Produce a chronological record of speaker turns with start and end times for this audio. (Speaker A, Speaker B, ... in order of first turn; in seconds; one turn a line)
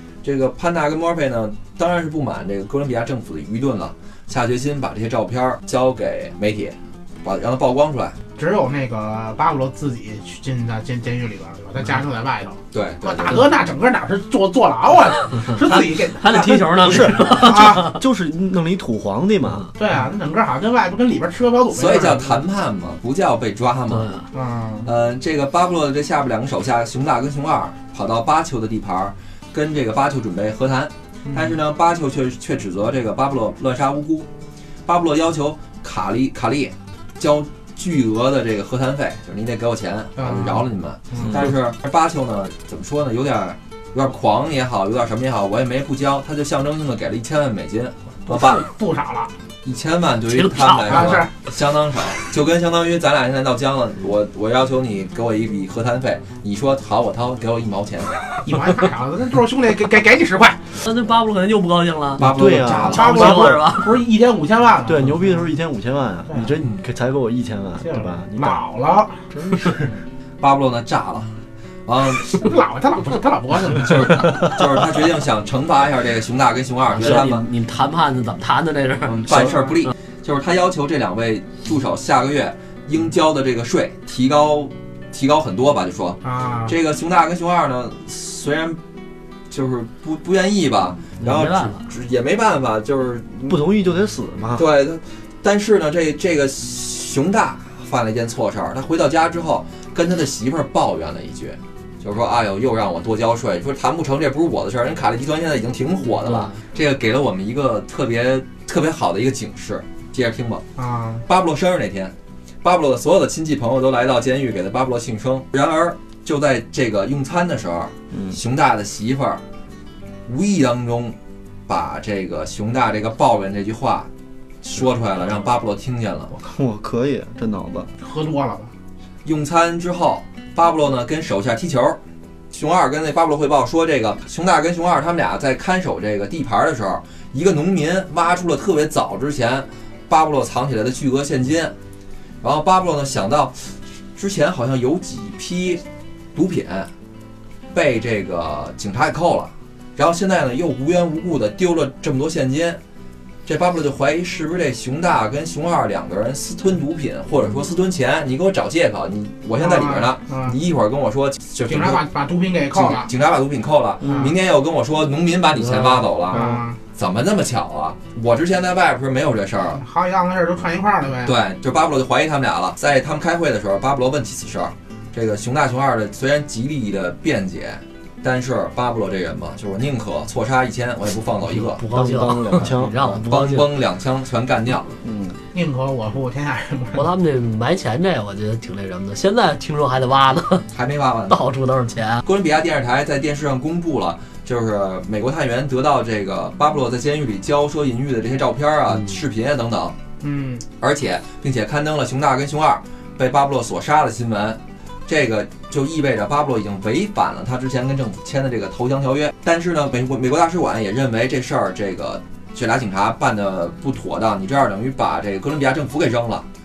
Speaker A: 0.2-8.2
Speaker B: 8.4-16.4
Speaker A: 12.7-13.5
Speaker C: 15.7-18.0
Speaker A: 15.7-16.8
Speaker D: 16.8-19.7
Speaker B: 17.4-18.0
Speaker B: 19.8-22.2
Speaker A: 21.7-24.1
Speaker C: 23.9-24.3
Speaker B: 24.3-24.9
Speaker A: 24.8-34.3
Speaker B: 31.2-31.6
Speaker A: 34.9-48.7
Speaker B: 40.2-41.4
Speaker B: 48.3-49.3
Speaker A: 49.6-58.2
Speaker C: 50.3-51.2
Speaker B: 50.9-51.3
Speaker B: 58.5-60.8
Speaker C: 60.8-62.2
Speaker A: 62.2-63.2
Speaker D: 62.2-63.7
Speaker C: 62.9-64.0
Speaker B: 62.9-65.4
Speaker D: 64.8-68.6
Speaker B: 66.3-66.5
Speaker B: 67.8-69.9
Speaker D: 69.3-70.0
Speaker A: 70.4-72.5
Speaker B: 72.2-74.6
Speaker A: 73.8-77.5
Speaker C: 76.9-79.9
Speaker A: 79.0-88.8
Speaker B: 86.2-86.8
Speaker A: 89.5-93.6
Speaker C: 91.2-91.9
Speaker D: 93.5-94.7
Speaker A: 94.6-110.7
Speaker C: 106.2-106.6
Speaker B: 110.8-111.3
Speaker A: 111.3-119.4
Speaker D: 118.1-118.4
Speaker A: 120.3-121.2
Speaker A: 121.7-124.1
Speaker A: 124.6-126.3
Speaker D: 126.3-127.9
Speaker B: 128.0-128.7
Speaker A: 129.2-132.0
Speaker A: 132.5-141.8
Speaker A: 142.4-145.8
Speaker A: 146.3-146.9
Speaker A: 147.7-152.8
Speaker A: 153.5-162.0
Speaker B: 159.6-160.6
Speaker B: 161.7-163.1
Speaker A: 162.7-169.8
Speaker B: 164.0-164.3
Speaker C: 165.7-166.1
Speaker B: 166.3-166.8
Speaker B: 169.8-171.3
Speaker A: 171.2-181.8
Speaker C: 181.5-183.7
Speaker D: 181.9-182.9
Speaker A: 183.0-184.9
Speaker D: 185.0-185.4
Speaker B: 185.5-187.1
Speaker C: 186.9-190.7
Speaker A: 190.7-191.4
Speaker C: 191.3-192.2
Speaker A: 192.2-200.0
Speaker B: 200.2-200.7
Speaker A: 200.8-216.5